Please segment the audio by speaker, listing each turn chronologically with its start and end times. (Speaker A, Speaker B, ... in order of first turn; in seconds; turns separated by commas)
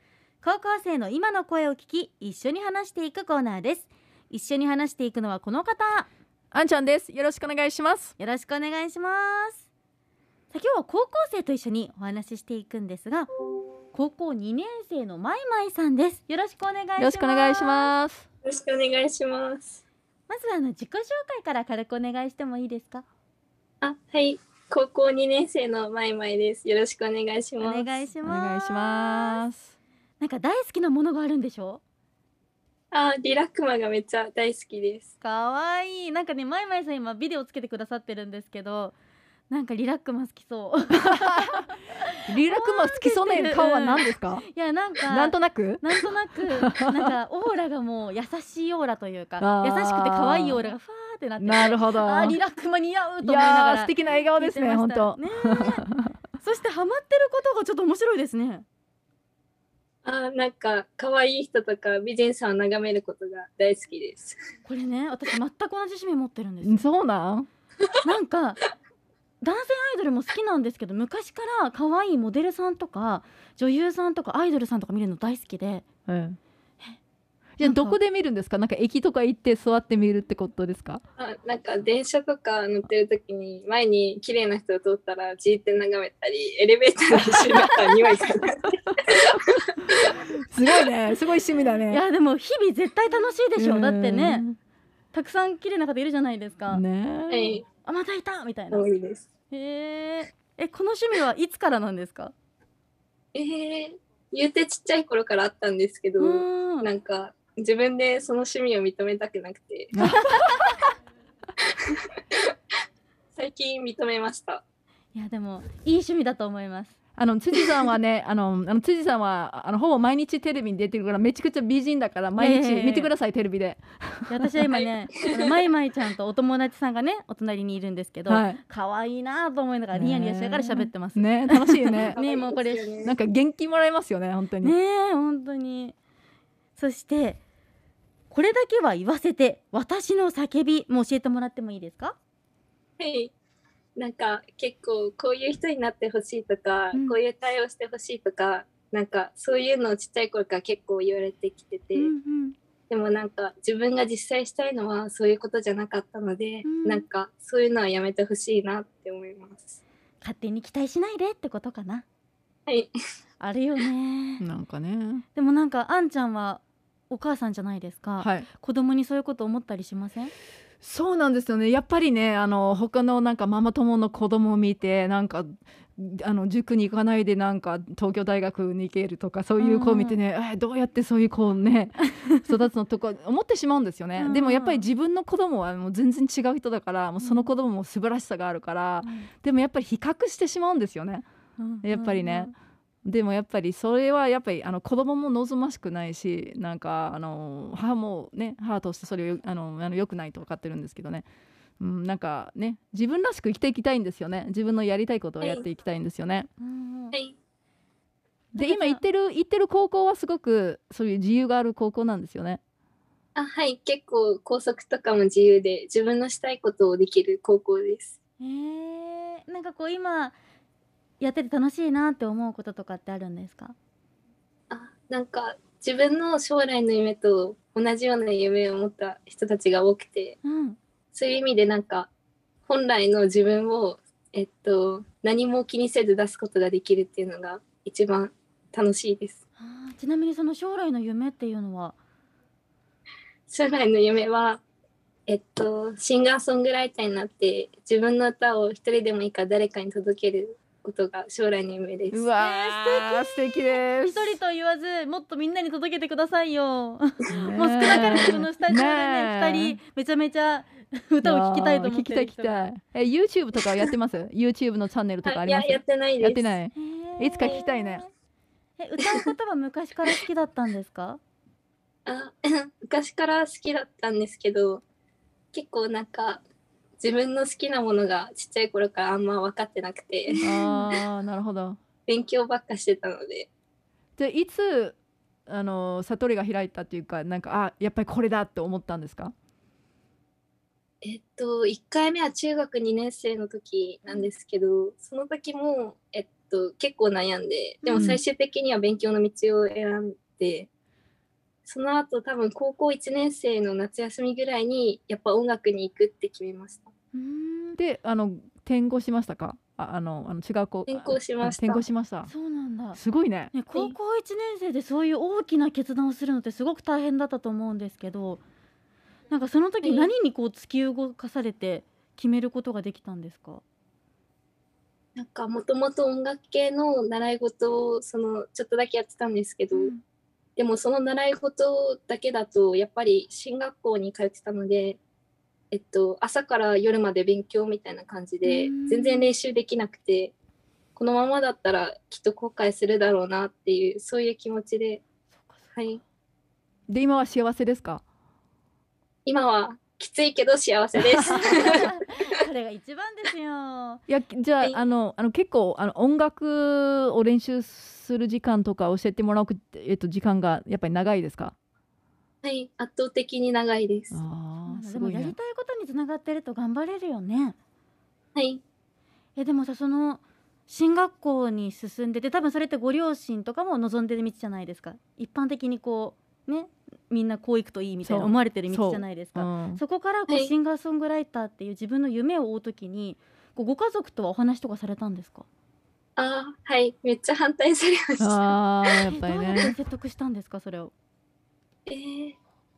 Speaker A: 0.4-6.1, Speaker B: 6.5-8.1, Speaker A: 8.2-9.6, Speaker A: 10.5-13.3, Speaker A: 13.9-17.9, Speaker B: 17.0-18.2, Speaker C: 18.4-19.8, Speaker A: 20.3-23.0, Speaker C: 23.8-27.9, Speaker A: 27.6-29.4, Speaker B: 28.2-29.7, Speaker A: 30.2-31.8, Speaker C: 32.9-35.1, Speaker A: 35.2-38.9, Speaker A: 39.5-55.8, Speaker B: 41.0-41.6, Speaker B: 42.3-44.5, Speaker B: 45.1-46.0, Speaker B: 49.4-50.7, Speaker B: 51.4-52.4, Speaker B: 53.2-56.1, Speaker A: 56.4-58.6, Speaker C: 60.0-64.4, Speaker A: 64.6-66.8, Speaker B: 66.6-67.5, Speaker A: 68.0-68.6, Speaker A: 69.4-75.8, Speaker B: 76.1-76.4, Speaker B: 77.6-81.0, Speaker A: 77.6-78.0, Speaker C: 81.2-89.4, Speaker B: 87.4-87.9, Speaker B: 89.3-92.0, Speaker A: 91.9-94.4, Speaker B: 93.6-94.6, Speaker A: 95.1-96.8, Speaker B: 96.7-97.6, Speaker C: 97.3-97.6, Speaker A: 97.8-98.8, Speaker C: 98.7-99.2, Speaker A: 99.5-102.3, Speaker C: 103.3-109.9, Speaker A: 106.2-106.9, Speaker B: 109.9-110.7, Speaker C: 113.3-114.6, Speaker A: 115.1-117.0, Speaker B: 117.2-124.5, Speaker A: 122.3-123.1, Speaker A: 124.3-132.9, Speaker B: 128.3-128.6, Speaker B: 129.9-132.2, Speaker C: 132.1-133.2, Speaker B: 133.0-134.7, Speaker A: 134.6-135.9, Speaker A: 136.8-137.4, Speaker A: 138.3-142.2, Speaker C: 143.0-143.3, Speaker C: 144.0-152.1, Speaker A: 151.9-152.6, Speaker C: 152.9-159.8, Speaker A: 156.6-157.0, Speaker A: 160.2-162.0, Speaker A: 163.4-164.4, Speaker B: 164.4-165.2, Speaker A: 165.3-170.3, Speaker B: 168.2-168.5, Speaker B: 170.8-191.2, Speaker A: 179.6-180.2, Speaker A: 182.0-182.5, Speaker A: 184.2-184.9, Speaker A: 187.2-187.5, Speaker A: 189.0-189.3, Speaker A: 191.6-192.5, Speaker B: 191.8-192.5, Speaker B: 193.1-201.2, Speaker B: 201.8-206.5, Speaker A: 206.6-207.1, Speaker A: 208.5-209.0, Speaker B: 208.6-212.6, Speaker C: 213.3-218.1, Speaker A: 218.4-220.3, Speaker A: 221.2-223.7, Speaker C: 224.7-230.4, Speaker A: 230.4-230.8, Speaker C: 231.1-232.1, Speaker C: 232.7-239.4, Speaker A: 239.6-241.9, Speaker C: 243.5-244.6, Speaker C: 245.3-252.3, Speaker B: 252.1-254.4, Speaker A: 252.4-262.7, Speaker B: 257.3-259.8, Speaker B: 261.2-268.0, Speaker C: 265.2-266.6, Speaker A: 266.7-268.1, Speaker A: 268.8-271.2, Speaker C: 272.1-274.8, Speaker C: 275.5-276.4, Speaker C: 277.0-280.4, Speaker A: 280.3-280.9, Speaker B: 280.4-281.8, Speaker C: 282.1-283.5, Speaker B: 284.2-285.0, Speaker B: 285.5-289.3, Speaker C: 291.0-300.7, Speaker A: 297.8-298.2, Speaker C: 301.6-306.9, Speaker A: 307.1-307.8, Speaker B: 307.8-312.3, Speaker C: 310.9-311.9, Speaker A: 312.3-313.0, Speaker B: 312.9-313.5, Speaker A: 313.5-318.4, Speaker A: 319.3-323.6, Speaker C: 319.8-320.1, Speaker C: 325.1-329.9, Speaker A: 329.7-330.0, Speaker C: 330.6-335.0, Speaker C: 335.7-340.3, Speaker A: 338.4-339.3, Speaker C: 340.9-345.0, Speaker C: 345.8-346.0, Speaker B: 346.9-348.0, Speaker C: 349.2-351.9, Speaker B: 351.2-351.8, Speaker A: 351.3-354.0, Speaker B: 354.1-361.6, Speaker C: 362.4-364.2, Speaker B: 364.1-365.4, Speaker A: 364.7-367.6, Speaker C: 368.3-368.6, Speaker A: 369.4-385.4, Speaker B: 378.0-379.8, Speaker C: 380.3-380.5, Speaker C: 386.2-388.5, Speaker B: 388.2-389.7, Speaker A: 389.1-390.9, Speaker C: 391.9-392.4